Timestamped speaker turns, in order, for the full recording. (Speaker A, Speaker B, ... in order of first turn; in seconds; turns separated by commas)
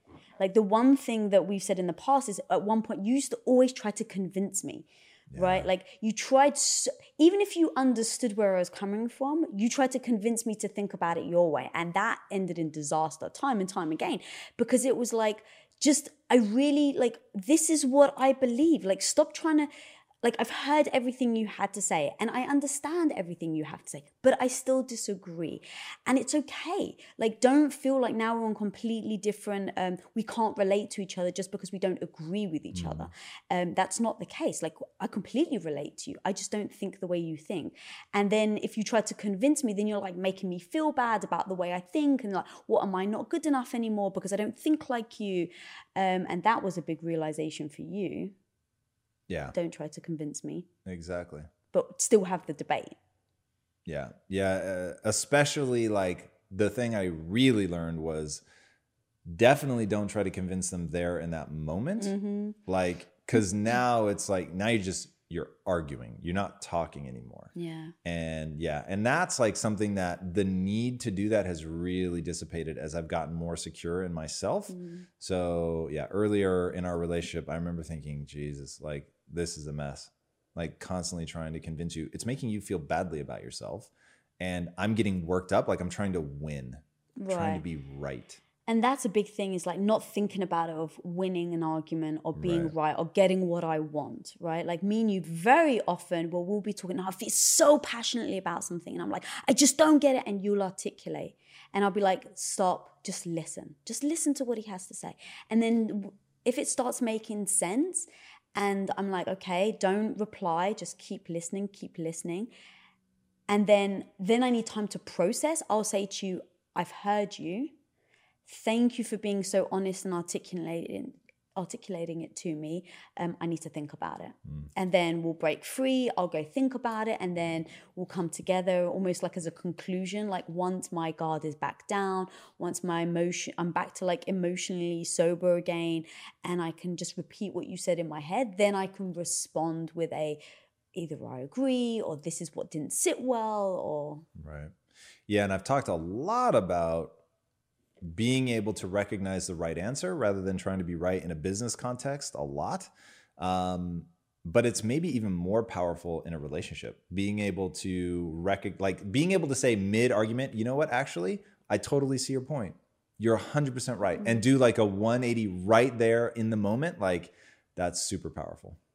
Speaker A: 0.4-19.7, Speaker B: 5.3-5.7, Speaker A: 20.2-48.3, Speaker B: 32.7-33.1, Speaker B: 49.3-49.5, Speaker A: 49.5-50.7, Speaker B: 50.9-51.5, Speaker A: 51.7-52.9, Speaker B: 53.9-58.4, Speaker B: 59.2-62.1, Speaker A: 62.0-62.6, Speaker B: 62.7-67.5, Speaker A: 67.5-67.9, Speaker B: 68.0-88.4, Speaker A: 74.7-75.1, Speaker A: 87.2-87.6, Speaker A: 88.7-112.5, Speaker B: 92.3-92.7, Speaker A: 113.5-117.7, Speaker A: 118.5-140.4, Speaker A: 140.9-144.2, Speaker B: 144.4-144.7, Speaker B: 145.3-147.2, Speaker B: 148.0-168.8, Speaker A: 164.2-164.4